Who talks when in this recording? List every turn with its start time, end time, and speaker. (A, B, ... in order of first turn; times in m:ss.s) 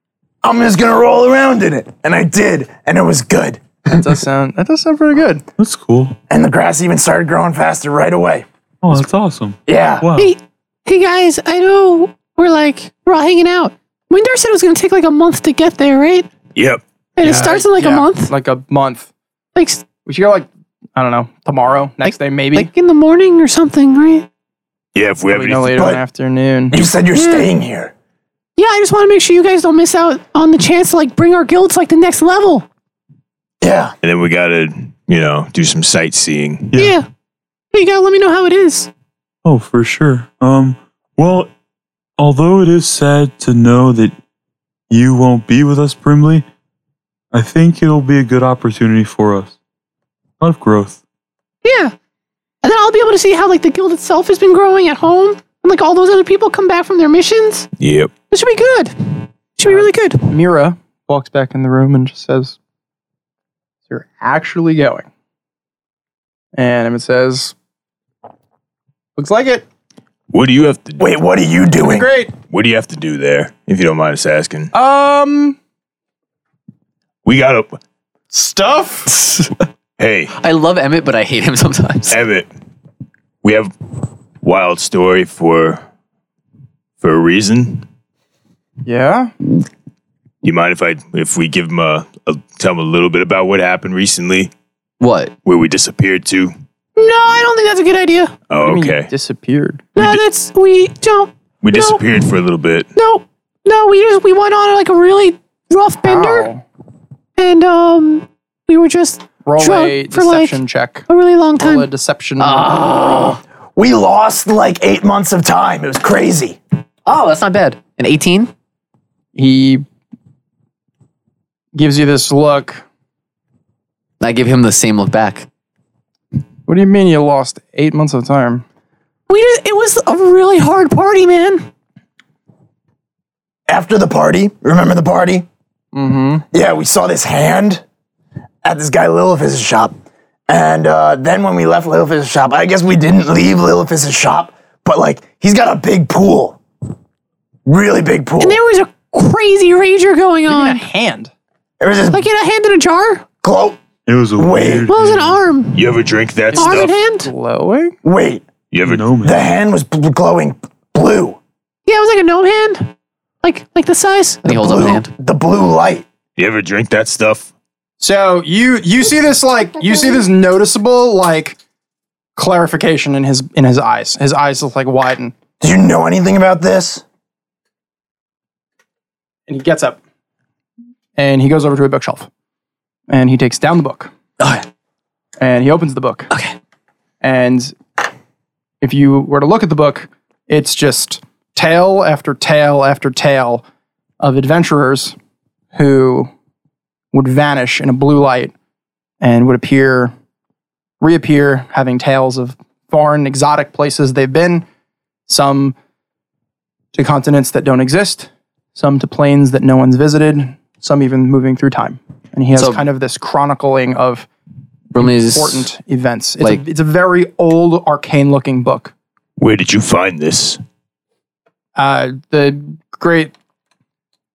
0:00.4-0:04.0 A
0:03.9-0:05.4 B
0:05.6-0:06.2 C
0:06.3-0:08.5 A
0:08.8-0:10.3 C
0:09.7-0:10.1 A
0:10.2-0:16.3 D
0:16.6-0:16.8 E
0:17.2-0:18.3 D
0:17.2-0:19.1 B
0:19.6-0:19.8 D
0:20.0-0:22.7 B
0:22.0-0:24.3 D
0:25.0-0:25.9 E
0:25.3-0:26.8 B
0:26.7-0:27.9 A
0:27.1-0:27.5 D
0:28.6-0:32.7 D
0:33.6-0:34.0 A
0:34.0-0:36.8 E
0:36.7-0:37.1 D
0:37.7-0:38.9 D
0:39.4-0:41.5 C
0:42.2-0:44.2 C
0:44.9-0:46.5 C
0:47.3-0:49.6 C
0:50.4-0:51.0 C
0:51.6-0:51.9 D
0:52.6-0:57.7 D
0:57.8-0:58.1 E
0:58.3-1:00.3 D
0:59.6-1:02.6 B
1:03.9-1:05.1 B
1:06.6-1:07.5 B
1:09.2-1:09.6 B
1:10.3-1:11.1 E
1:11.0-1:12.1 A
1:11.8-1:12.3 B
1:12.5-1:14.7 E
1:14.7-1:15.6 B
1:17.2-1:17.8 E
1:18.3-1:19.4 B
1:20.0-1:20.3 E
1:20.4-1:22.2 F
1:22.1-1:22.5 E
1:23.4-1:23.7 E
1:24.4-1:25.8 E
1:27.0-1:27.8 E
1:28.9-1:29.3 B
1:30.4-1:34.5 E
1:35.0-1:35.3 F
1:35.4-1:36.5 E
1:37.0-1:38.3 D
1:38.5-1:39.1 E
1:38.6-1:39.9 B
1:40.0-1:42.2 D
1:41.6-1:42.9 E
1:43.0-1:46.5 D
1:46.0-1:46.6 B
1:47.4-1:51.9 D
1:49.4-1:51.1 B
1:51.6-1:52.8 B
1:52.4-1:53.4 F
1:53.8-1:56.6 A
1:57.1-1:58.5 F
1:59.4-1:59.8 B
2:01.8-2:02.8 B
2:04.2-2:05.5 F
2:06.7-2:08.6 B
2:09.3-2:11.7 D
2:13.7-2:15.5 A
2:15.9-2:16.4 B
2:16.5-2:17.8 A
2:18.6-2:19.9 A
2:20.5-2:26.6 A
2:27.7-2:28.6 A
2:28.4-2:30.8 D
2:30.5-2:31.3 B
2:31.8-2:32.2 A
2:32.1-2:33.2 D
2:33.4-2:33.8 A
2:34.1-2:35.4 C
2:34.4-2:34.9 A
2:34.9-2:36.0 D
2:35.7-2:36.9 E
2:36.5-2:38.0 B
2:36.6-2:37.3 D
2:38.0-2:38.5 A
2:38.7-2:39.1 E
2:38.8-2:39.5 C
2:39.2-2:41.4 A
2:41.9-2:42.9 D
2:43.4-2:44.4 D
2:44.4-2:45.1 F
2:44.5-2:46.1 A
2:46.4-2:47.5 E
2:48.0-2:51.6 B
2:52.4-2:55.3 B
2:55.6-2:57.0 A
2:59.5-3:00.0 B
3:01.2-3:02.3 B
3:03.1-3:04.1 B
3:05.4-3:06.3 B
3:07.2-3:07.8 B
3:08.8-3:13.6 B
3:14.2-3:15.2 B
3:15.7-3:16.3 B
3:17.1-3:18.5 B
3:19.2-3:20.1 B
3:21.0-3:24.6 B
3:25.3-3:25.8 B
3:26.9-3:34.3 B
3:32.5-3:32.8 F
3:34.9-3:35.7 F
3:35.0-3:38.9 B
3:39.4-3:40.6 E
3:41.8-3:43.3 B